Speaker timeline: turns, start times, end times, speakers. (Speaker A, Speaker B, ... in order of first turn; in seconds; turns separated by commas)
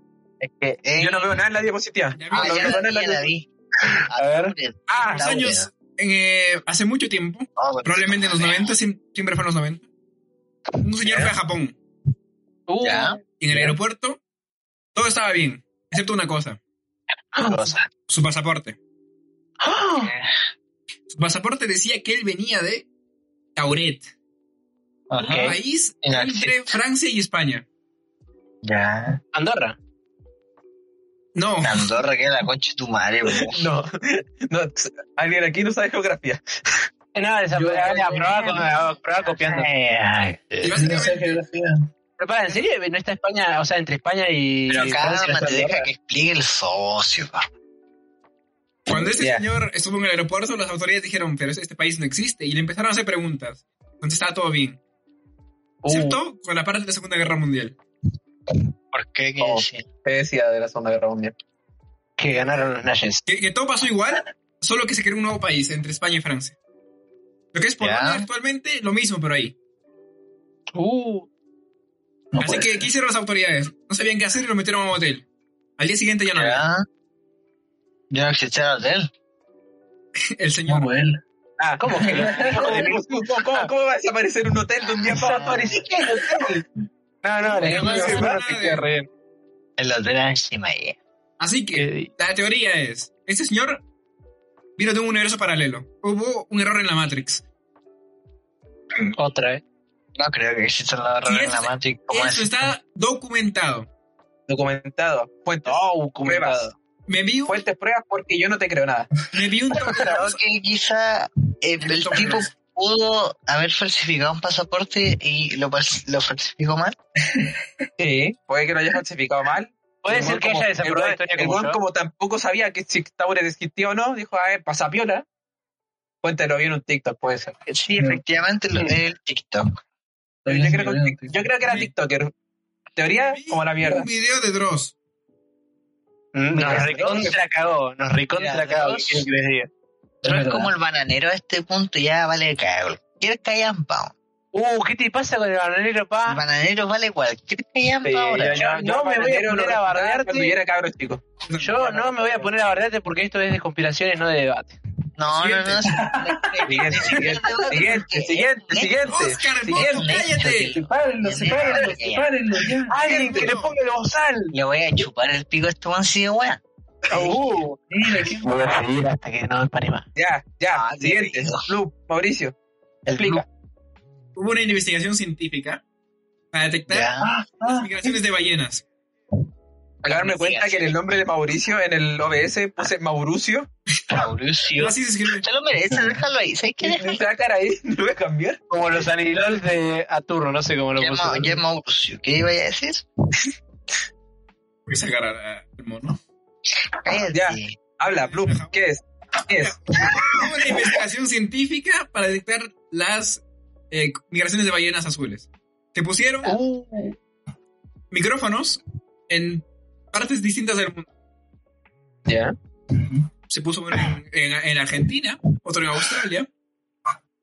Speaker A: 0.4-1.4, Speaker B: 1.0-3.3, Speaker C: 2.1-2.8, Speaker A: 2.3-3.5, Speaker A: 4.1-5.7, Speaker D: 4.1-4.5, Speaker B: 4.9-5.3, Speaker C: 5.0-9.8, Speaker A: 7.5-8.7, Speaker C: 10.8-11.8, Speaker D: 12.7-13.2, Speaker A: 12.8-13.8, Speaker C: 13.4-14.2, Speaker C: 14.9-16.6, Speaker D: 17.4-17.8, Speaker A: 17.4-17.9, Speaker C: 18.1-18.8, Speaker D: 19.6-20.1, Speaker A: 20.0-20.3, Speaker C: 21.1-22.9, Speaker C: 23.6-24.1, Speaker A: 25.1-25.6, Speaker D: 25.2-26.1, Speaker C: 25.3-27.6, Speaker A: 26.1-26.5, Speaker A: 28.6-29.2, Speaker D: 29.3-29.8, Speaker C: 31.3-31.9, Speaker A: 31.6-33.6, Speaker B: 33.4-36.8, Speaker D: 37.1-39.7, Speaker E: 37.5-38.6, Speaker A: 38.2-40.8, Speaker C: 40.6-41.4, Speaker E: 40.7-41.9, Speaker D: 42.2-45.8, Speaker A: 44.7-47.4, Speaker C: 48.9-54.8, Speaker B: 48.9-49.4, Speaker D: 55.8-56.2, Speaker C: 55.9-57.8, Speaker A: 58.9-59.9, Speaker B: 59.4-61.3, Speaker D: 62.2-63.2, Speaker C: 63.2-66.5, Speaker C: 67.5-69.5, Speaker A: 67.8-68.3, Speaker D: 70.7-71.3, Speaker E: 72.3-72.8, Speaker C: 72.4-75.2, Speaker C: 75.8-76.6, Speaker A: 76.3-76.8, Speaker A: 78.1-79.1, Speaker C: 80.3-80.9, Speaker E: 80.7-81.2, Speaker B: 81.6-86.4, Speaker D: 81.8-83.7, Speaker E: 81.9-82.9, Speaker A: 84.8-85.9, Speaker D: 85.3-86.5, Speaker D: 87.2-89.1, Speaker B: 87.5-88.3, Speaker C: 87.6-88.9, Speaker E: 87.7-88.3, Speaker A: 89.8-91.0, Speaker C: 91.4-93.8, Speaker D: 91.7-92.1, Speaker C: 94.8-97.4, Speaker D: 99.2-99.6, Speaker A: 100.2-102.7, Speaker C: 101.2-103.9, Speaker B: 104.5-106.7, Speaker D: 105.7-106.7, Speaker C: 107.1-107.6, Speaker B: 107.5-109.1, Speaker C: 109.3-110.4, Speaker A: 109.8-117.0, Speaker C: 111.9-112.5, Speaker E: 117.3-117.5, Speaker B: 118.0-125.2, Speaker D: 120.0-121.8, Speaker B: 126.2-127.5, Speaker A: 127.7-129.8, Speaker E: 130.4-131.5, Speaker B: 130.5-132.3, Speaker C: 131.6-131.9, Speaker B: 132.9-134.1, Speaker C: 133.1-134.9, Speaker D: 136.3-139.7, Speaker B: 136.6-137.3, Speaker A: 136.6-137.1, Speaker A: 138.3-139.2, Speaker E: 140.2-140.7, Speaker A: 140.2-144.1, Speaker D: 144.5-146.4, Speaker A: 146.2-148.6, Speaker B: 148.0-151.2, Speaker D: 148.5-150.6, Speaker C: 151.5-151.9, Speaker D: 151.6-154.8, Speaker B: 151.8-152.5, Speaker A: 155.2-162.3, Speaker C: 155.3-155.8, Speaker E: 155.8-156.7, Speaker B: 156.7-160.2, Speaker C: 159.1-160.7, Speaker E: 160.7-163.0, Speaker D: 162.9-164.5, Speaker C: 163.1-163.8, Speaker A: 164.5-166.6, Speaker D: 167.1-170.1, Speaker E: 167.9-168.7, Speaker B: 170.2-172.5, Speaker A: 170.7-171.7, Speaker A: 173.1-173.4, Speaker B: 173.1-173.4, Speaker C: 174.3-175.8, Speaker C: 176.5-177.1, Speaker A: 176.9-177.3, Speaker E: 177.2-177.9, Speaker C: 177.7-178.8, Speaker B: 180.0-183.7, Speaker A: 180.1-180.9, Speaker A: 184.1-187.2, Speaker C: 184.8-185.4, Speaker E: 185.9-186.2, Speaker B: 186.8-188.6, Speaker D: 188.7-191.6, Speaker A: 191.0-193.0, Speaker C: 194.9-196.2, Speaker A: 197.0-197.8, Speaker B: 197.3-199.8, Speaker C: 198.0-198.8, Speaker C: 199.6-206.6, Speaker D: 206.4-207.1, Speaker C: 208.1-211.1, Speaker B: 212.2-212.5, Speaker C: 213.5-216.5